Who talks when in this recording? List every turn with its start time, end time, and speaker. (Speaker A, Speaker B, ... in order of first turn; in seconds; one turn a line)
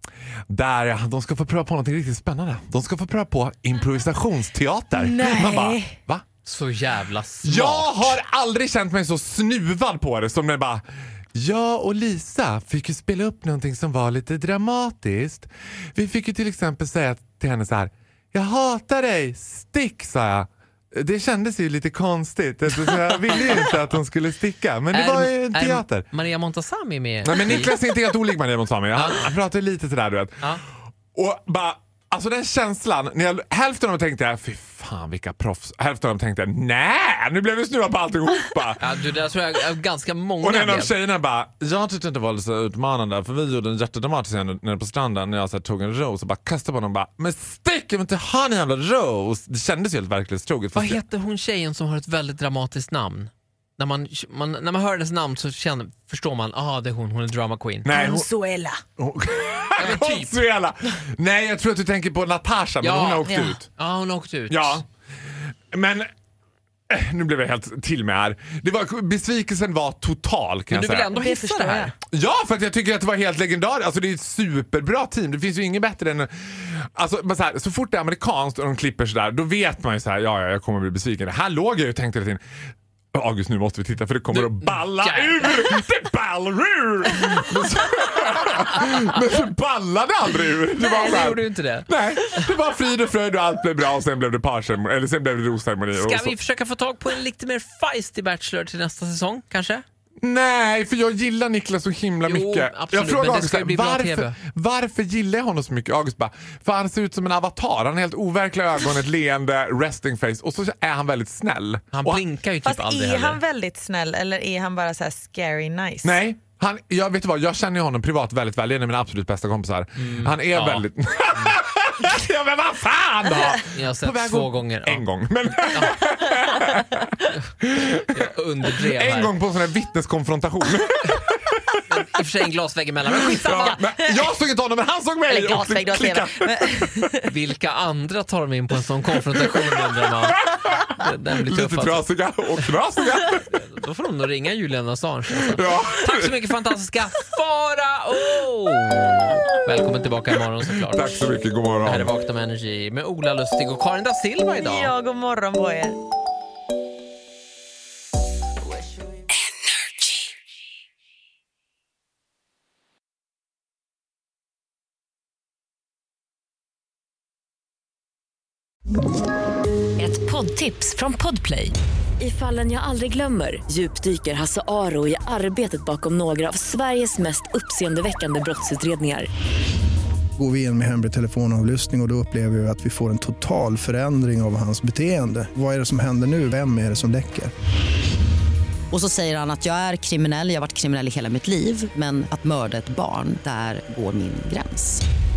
Speaker A: 0.5-6.2
Speaker B: 4.9-5.9
Speaker C: 6.4-8.2
Speaker A: 7.4-10.8
Speaker A: 11.3-26.1
Speaker C: 22.8-23.7
Speaker C: 24.9-27.8
Speaker A: 27.2-30.6
Speaker C: 29.0-29.3
Speaker A: 31.1-38.8
Speaker C: 38.8-40.9
Speaker A: 40.4-51.0
Speaker C: 50.7-57.9
Speaker A: 57.8-58.3
Speaker B: 57.9-58.8
Speaker A: 59.0-63.7
Speaker C: 59.8-60.3
Speaker C: 62.8-64.8
Speaker B: 63.3-63.6
Speaker A: 64.5-64.8
Speaker A: 65.7-66.1
Speaker A: 66.9-71.1
Speaker C: 70.7-71.9
Speaker B: 71.1-71.9
Speaker A: 72.1-82.4
Speaker A: 83.1-96.3
Speaker C: 84.3-85.7
Speaker C: 90.8-92.4
Speaker C: 95.9-99.8
Speaker A: 100.2-112.2
Speaker C: 102.2-104.3
Speaker C: 111.9-113.4
Speaker B: 112.6-116.2
Speaker A: 116.0-127.0
Speaker C: 120.0-120.9
Speaker C: 123.7-125.0
Speaker C: 125.7-126.0
Speaker A: 127.6-128.2
Speaker C: 128.0-129.3
Speaker A: 128.8-131.8
Speaker C: 131.9-133.8
Speaker A: 133.1-137.1
Speaker B: 133.5-134.3
Speaker B: 135.3-137.3
Speaker C: 137.3-142.0
Speaker A: 140.3-140.9
Speaker A: 141.5-143.4
Speaker C: 143.5-151.3
Speaker A: 145.4-146.4
Speaker A: 150.9-152.1
Speaker C: 151.8-154.9
Speaker B: 154.5-156.0
Speaker D: 170.0-179.3
Speaker E: 180.4-187.5
Speaker F: 188.9-195.0